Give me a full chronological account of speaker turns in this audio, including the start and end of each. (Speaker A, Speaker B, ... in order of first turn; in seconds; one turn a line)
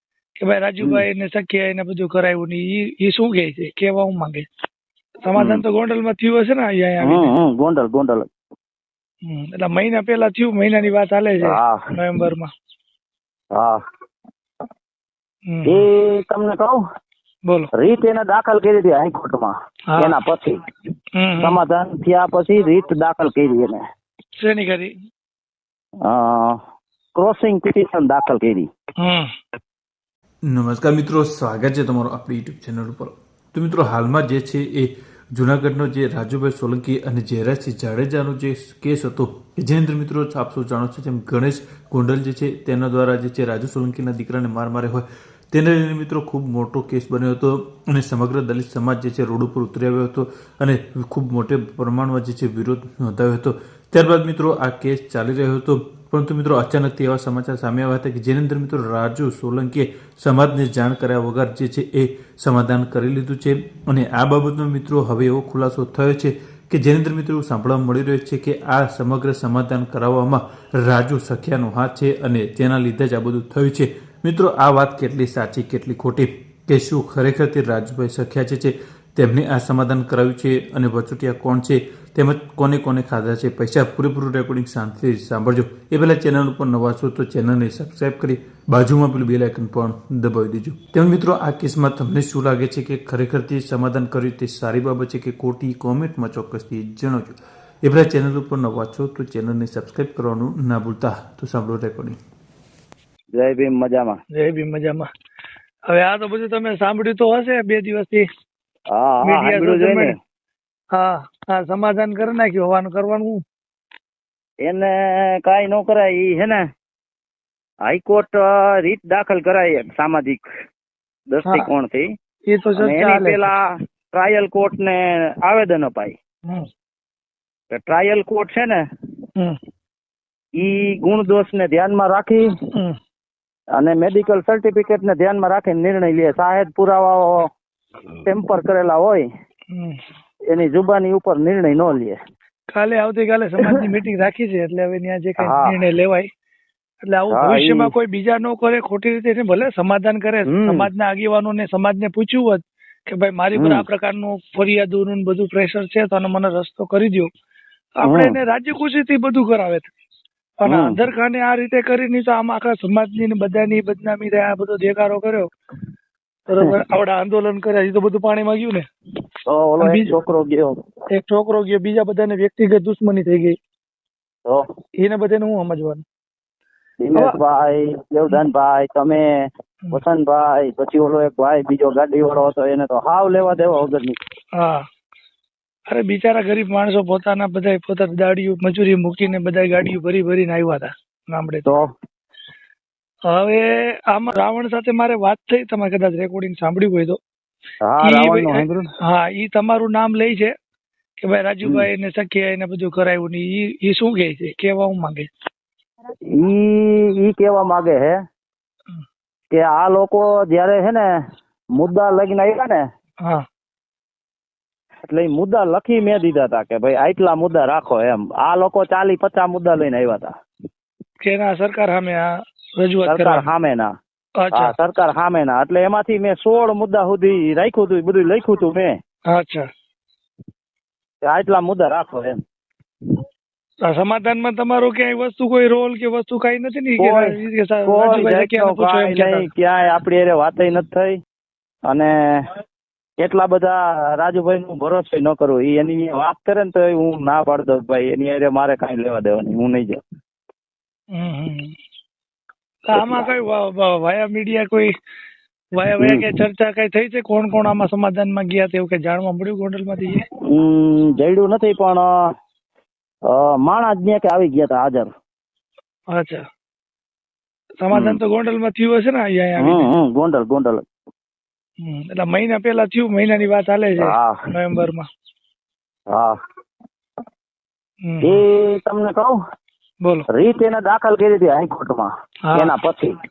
Speaker A: 0.4-4.5
Speaker A: 5.2-7.3
Speaker B: 5.4-5.6
Speaker B: 7.0-8.3
Speaker A: 9.2-12.5
Speaker B: 11.4-11.8
Speaker A: 15.5-15.9
Speaker B: 15.7-16.8
Speaker B: 17.8-20.6
Speaker A: 21.2-21.6
Speaker B: 21.4-23.8
Speaker A: 24.4-24.9
Speaker B: 26.0-26.6
Speaker B: 27.2-28.7
Speaker A: 29.0-29.3
Speaker C: 30.5-102.2
Speaker B: 103.3-104.2
Speaker A: 104.3-105.1
Speaker A: 105.9-108.2
Speaker B: 108.9-110.1
Speaker A: 109.2-110.1
Speaker A: 110.9-113.4
Speaker B: 114.6-116.6
Speaker B: 117.9-120.4
Speaker B: 121.3-122.1
Speaker A: 122.5-123.5
Speaker B: 122.8-126.2
Speaker B: 127.7-128.8
Speaker B: 130.6-132.5
Speaker A: 132.7-133.0
Speaker B: 133.8-137.5
Speaker B: 138.2-139.2
Speaker A: 139.7-140.0
Speaker B: 140.5-142.2
Speaker A: 142.7-146.3
Speaker B: 145.4-145.8
Speaker A: 147.0-157.3
Speaker B: 147.3-147.9
Speaker B: 150.5-150.9
Speaker B: 153.6-153.8
Speaker A: 158.0-159.9
Speaker B: 158.1-158.3
Speaker A: 160.6-165.5
Speaker B: 160.7-161.0
Speaker A: 166.5-168.9
Speaker B: 169.5-170.7
Speaker A: 169.8-170.1
Speaker A: 171.1-173.6
Speaker A: 175.0-176.0
Speaker B: 177.0-184.2
Speaker A: 184.6-184.8
Speaker A: 185.9-191.7
Speaker A: 193.3-197.2
Speaker B: 197.8-198.9
Speaker A: 198.0-200.5
Speaker A: 201.2-205.3
Speaker B: 206.3-208.2
Speaker B: 209.5-211.1
Speaker B: 211.8-212.8
Speaker B: 215.1-220.3
Speaker A: 221.2-223.4
Speaker B: 223.1-223.9
Speaker A: 224.4-224.7
Speaker B: 224.5-228.9
Speaker A: 229.3-229.7
Speaker B: 231.2-232.3
Speaker A: 233.8-239.5
Speaker B: 237.0-237.3
Speaker B: 237.9-241.1
Speaker B: 241.9-242.4
Speaker B: 243.2-250.0
Speaker A: 251.1-251.7
Speaker A: 252.9-254.9
Speaker B: 252.9-253.3
Speaker A: 255.8-260.3
Speaker B: 260.5-262.1
Speaker B: 263.3-265.1
Speaker A: 266.1-266.4
Speaker A: 267.8-269.9
Speaker B: 267.9-268.2
Speaker B: 269.6-270.8
Speaker A: 271.8-275.1
Speaker B: 274.0-274.4
Speaker A: 278.0-278.4
Speaker B: 278.2-279.3
Speaker B: 280.3-283.1
Speaker A: 282.5-282.7